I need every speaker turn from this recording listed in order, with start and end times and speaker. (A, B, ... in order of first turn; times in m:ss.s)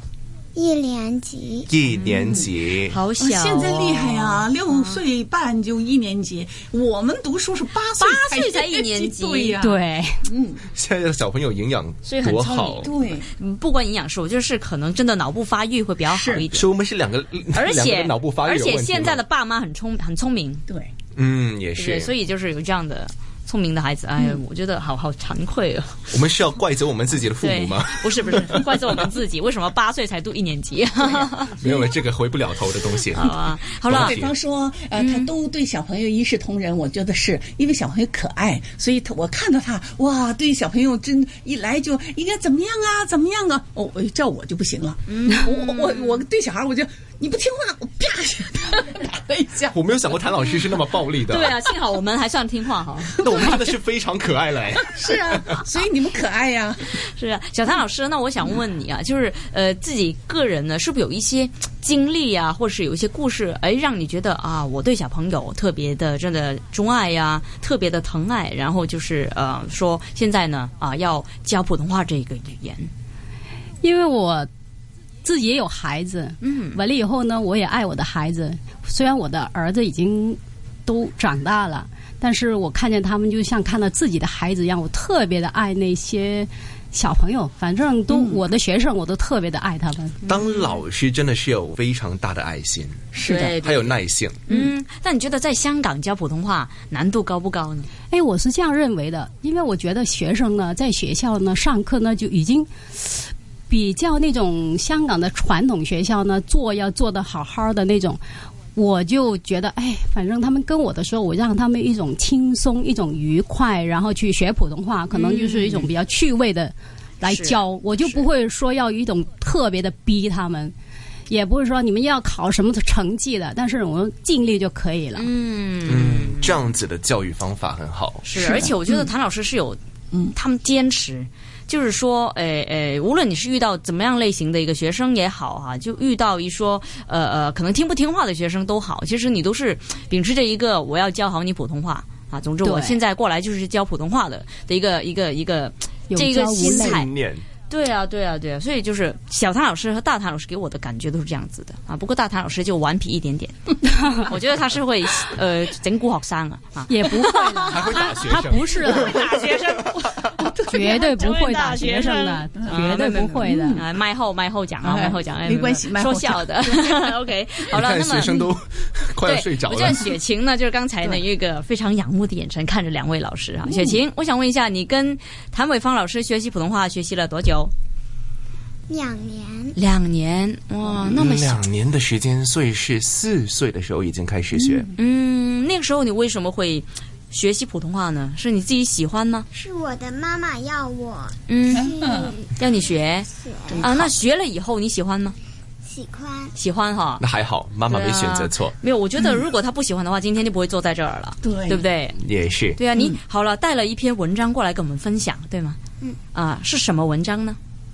0:00.5-0:01.7 A
0:01.7-0:03.0 B
0:02.0-0:02.5 C
0:02.9-0:05.0 D
0:03.2-0:10.6 C
0:07.9-0:09.6 D
0:09.6-0:10.2 E
0:10.7-0:12.9 B
0:12.0-0:16.7 D
0:12.8-0:13.3 C
0:16.0-0:16.5 C
0:16.5-0:19.2 B
0:17.5-0:20.6 D
0:21.1-0:22.1 B
0:21.8-0:26.2 D
0:26.1-0:28.8 B
0:27.4-0:31.6 D
0:31.6-0:34.3 B
0:33.1-0:34.2 D
0:33.9-0:49.8 C
0:35.0-0:35.3 D
0:45.1-0:46.2 D
0:49.7-0:51.6 B
0:51.3-0:53.1 D
0:53.2-0:55.6 B
0:53.2-0:53.6 C
0:54.8-0:57.0 C
0:56.8-1:12.9 D
1:13.8-1:14.5 E
1:15.2-1:30.2 E
1:16.4-1:16.8 D
1:28.1-1:28.4 C
1:30.2-1:30.8 D
1:30.3-1:34.4 B
1:33.1-1:33.6 C
1:33.2-1:33.9 D
1:34.4-1:37.9 D
1:38.1-1:48.2 E
1:48.7-2:00.7 E
1:55.1-1:55.9 D
1:57.2-1:57.6 D
2:01.3-2:05.2 E
2:05.1-2:06.6 D
2:05.8-2:08.2 B
2:08.2-2:27.1 D
2:08.4-2:09.1 C
2:22.6-2:23.0 E
2:26.1-2:27.0 E
2:26.6-2:27.4 B
2:27.7-2:38.1 D
2:36.9-2:39.2 E
2:37.6-2:39.6 B
2:38.8-2:40.0 D
2:40.1-2:41.2 C
2:40.7-2:43.8 E
2:40.8-2:48.4 D
2:43.4-2:43.8 C
2:44.8-2:47.1 C
2:47.7-2:50.0 B
2:49.2-2:57.7 D
2:53.6-2:54.0 C
2:58.9-2:59.7 A
2:59.7-3:01.6 D
3:01.0-3:04.9 B
3:05.0-3:09.5 D
3:09.5-3:13.9 A
3:11.5-3:11.9 D
3:11.7-3:12.3 C
3:12.5-3:15.4 D
3:13.7-3:14.0 C
3:15.8-3:16.5 A
3:16.5-3:17.2 D
3:17.2-3:18.8 B
3:17.9-3:22.2 D
3:21.4-3:21.8 C
3:22.2-3:22.8 B
3:22.8-3:25.8 D
3:26.3-3:27.6 D